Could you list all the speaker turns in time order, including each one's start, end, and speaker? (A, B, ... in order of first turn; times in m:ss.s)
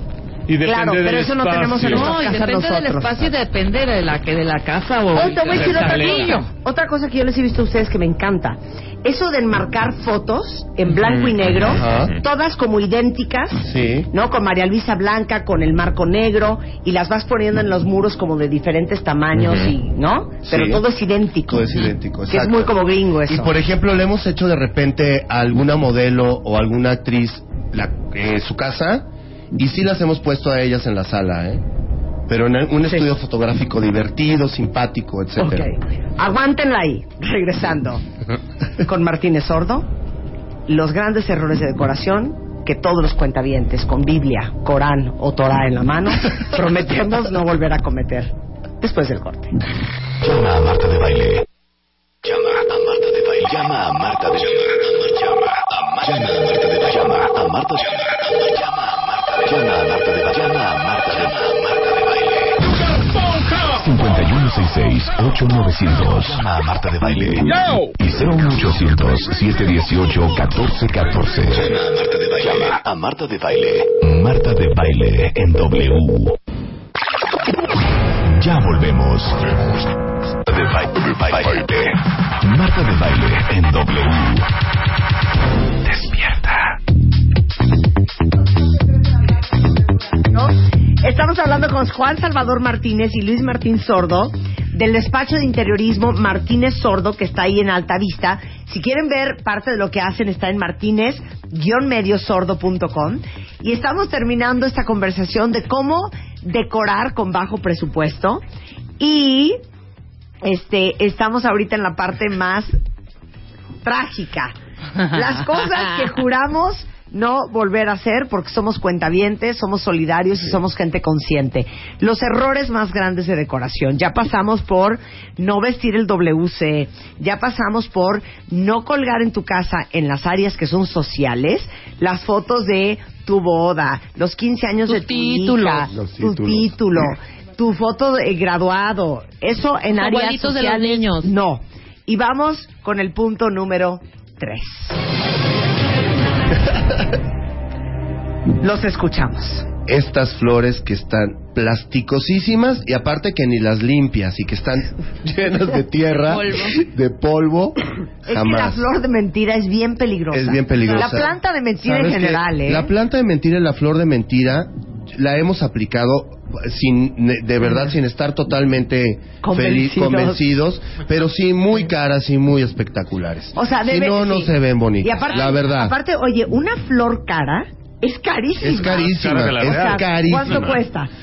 0:00.5-0:02.3 A
0:00.6-0:03.3 B
0:01.8-0:06.5 C
0:05.1-0:21.7 B
0:05.2-0:06.4 A
0:11.0-0:12.2 A
0:11.6-0:12.1 D
0:13.6-0:14.1 D
0:19.4-0:19.7 A
0:20.4-0:20.8 D
0:21.5-0:22.7 D
0:22.3-0:23.5 B
0:23.3-0:31.6 D
0:32.3-0:35.7 D
0:35.4-0:38.0 B
0:38.8-0:39.9 B
0:40.7-0:49.5 B
0:50.2-0:51.4 E
0:52.2-1:16.4 E
1:18.2-1:19.6 E
1:20.4-1:24.5 E
1:25.8-1:26.8 E
1:29.6-1:48.4 B
1:49.0-1:49.6 B
1:50.4-1:52.8 B
1:53.8-2:25.0 B
2:14.8-2:15.9 C
2:15.9-2:17.0 D
2:19.9-2:21.3 C
2:28.6-2:29.7 B
2:29.8-2:38.8 D
2:36.1-2:36.8 C
2:38.3-2:42.9 B
2:40.3-2:56.0 D
2:40.8-2:41.3 C
2:49.4-2:50.4 B
2:53.5-3:01.1 B
2:58.6-3:00.8 D
2:58.8-3:00.8 A